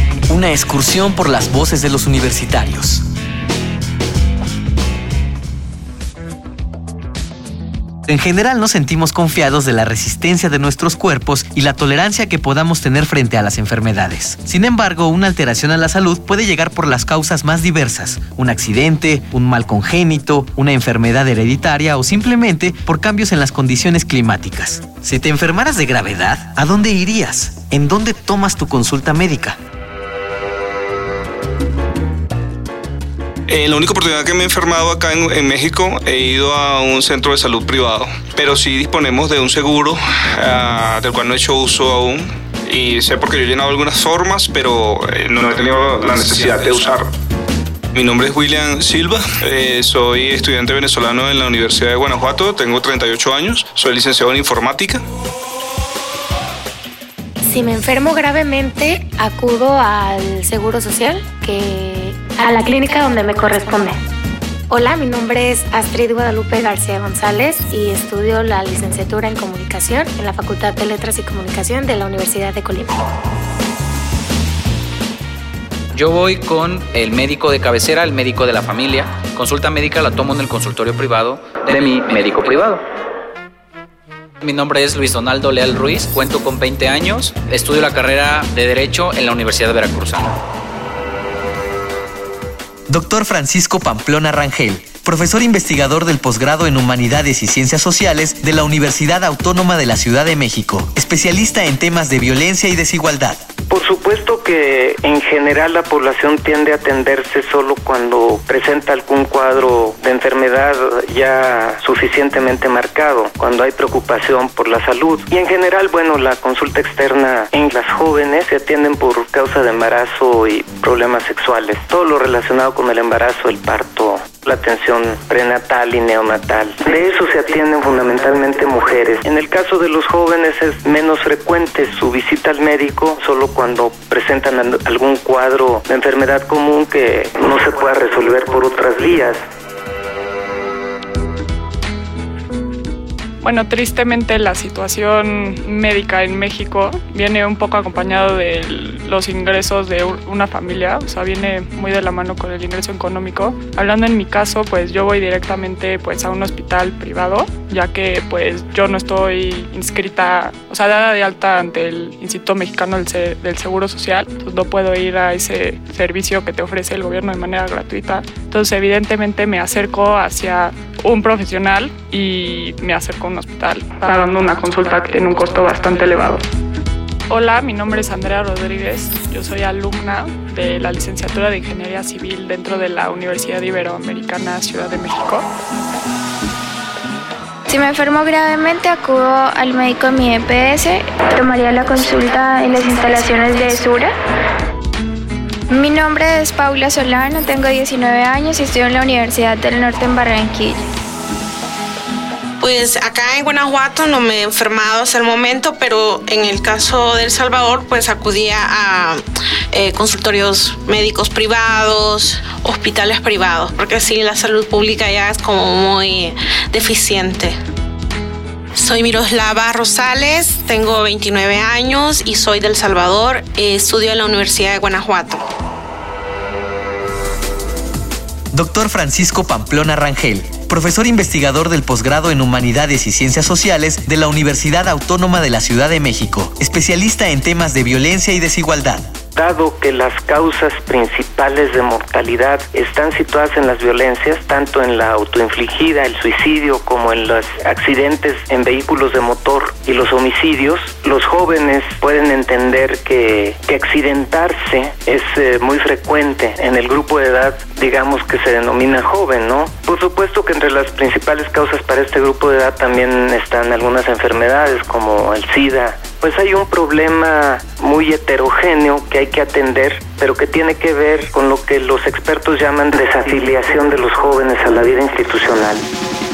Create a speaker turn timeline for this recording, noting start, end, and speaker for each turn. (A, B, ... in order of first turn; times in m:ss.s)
0:00.3-0:03.0 A
0:08.0-0:29.6 A
0:33.5-0:47.0 B
0:47.9-0:55.0 B
0:57.4-1:04.0 C
1:04.7-1:13.0 C
1:15.9-1:22.8 D
1:24.4-1:30.4 D
1:32.9-1:43.4 A
1:43.7-2:19.4 E
2:23.4-2:56.4 F
2:57.3-3:05.5 F
3:07.7-3:14.1 G
3:15.7-3:20.8 G
3:22.6-3:37.6 H
3:38.7-3:45.4 H
3:48.5-3:59.0 A
3:59.3-4:35.8 E